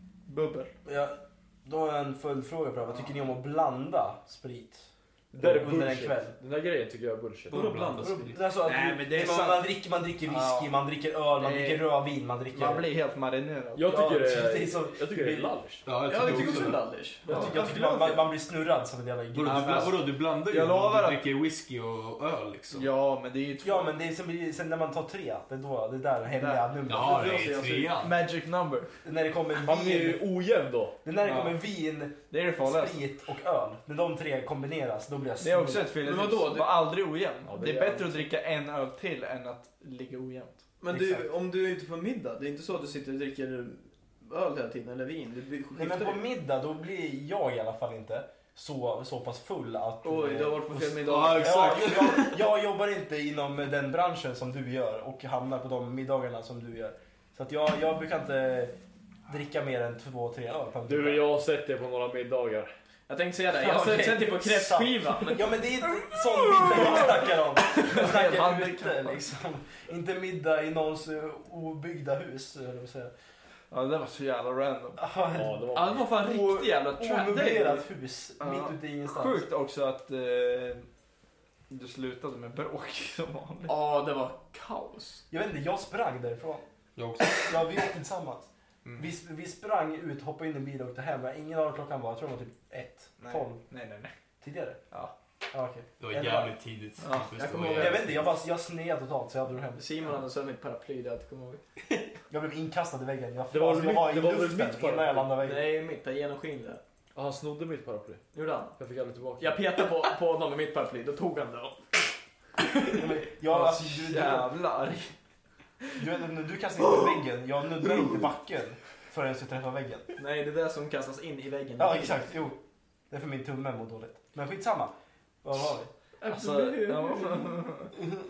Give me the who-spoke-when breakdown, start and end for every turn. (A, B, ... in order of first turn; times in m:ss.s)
0:00.3-0:00.7 A
0:00.8-0:06.4 B
0:05.3-0:07.7 C
0:07.5-0:08.4 D
0:07.5-0:08.3 E
0:08.3-0:12.9 B
0:08.6-0:09.7 A
0:10.2-0:10.8 A
0:11.3-0:11.9 A
0:12.5-0:14.1 A
0:13.8-0:16.3 C
0:13.8-0:15.5 B
0:15.8-0:16.8 E
0:16.0-0:17.4 D
0:17.3-0:18.2 A
0:17.3-0:20.0 B
0:17.3-0:17.6 C
0:19.3-0:22.9 E
0:19.5-0:21.2 A
0:22.7-0:23.9 A
0:23.6-0:27.9 B
0:26.3-0:28.9 A
0:26.9-0:28.2 E
0:29.0-0:30.2 B
0:29.6-0:31.0 C
0:31.0-0:35.9 B
0:31.2-0:31.6 A
0:32.3-0:33.0 A
0:35.4-0:40.6 A
0:36.0-0:36.9 D
0:37.4-0:38.2 C
0:40.8-0:46.2 D
0:40.9-0:41.3 B
0:45.7-0:58.8 B
0:50.0-0:51.5 D
0:51.1-0:52.4 E
0:59.3-1:01.2 B
1:00.8-1:02.7 C
1:03.1-1:05.6 D
1:03.5-1:13.1 B
1:06.6-1:09.2 A
1:13.7-1:15.0 A
1:15.0-1:15.6 B
1:15.3-1:16.1 C
1:15.7-1:17.9 D
1:16.2-1:19.5 B
1:18.4-1:20.9 A
1:21.7-1:23.7 A
1:23.7-1:25.2 D
1:25.3-1:26.6 B
1:27.0-1:27.6 E
1:27.3-1:33.6 B
1:28.8-1:29.1 E
1:33.2-1:34.1 A
1:34.4-1:34.8 B
1:35.5-1:36.5 B
1:36.0-1:38.2 E
1:37.0-1:37.4 A
1:37.3-1:38.2 D
1:37.8-1:39.9 B
1:39.7-1:41.6 D
1:42.3-1:45.7 B
1:43.5-1:45.3 C
1:45.4-1:46.8 D
1:47.1-1:48.2 C
1:48.3-1:48.8 D
1:48.7-1:49.6 C
1:49.4-1:52.0 D
1:52.9-1:54.6 B
1:53.4-1:55.1 A
1:56.0-2:00.1 B
2:00.2-2:02.3 D
2:01.8-2:02.6 B
2:03.1-2:05.9 B
2:06.2-2:07.5 D
2:06.2-2:08.0 A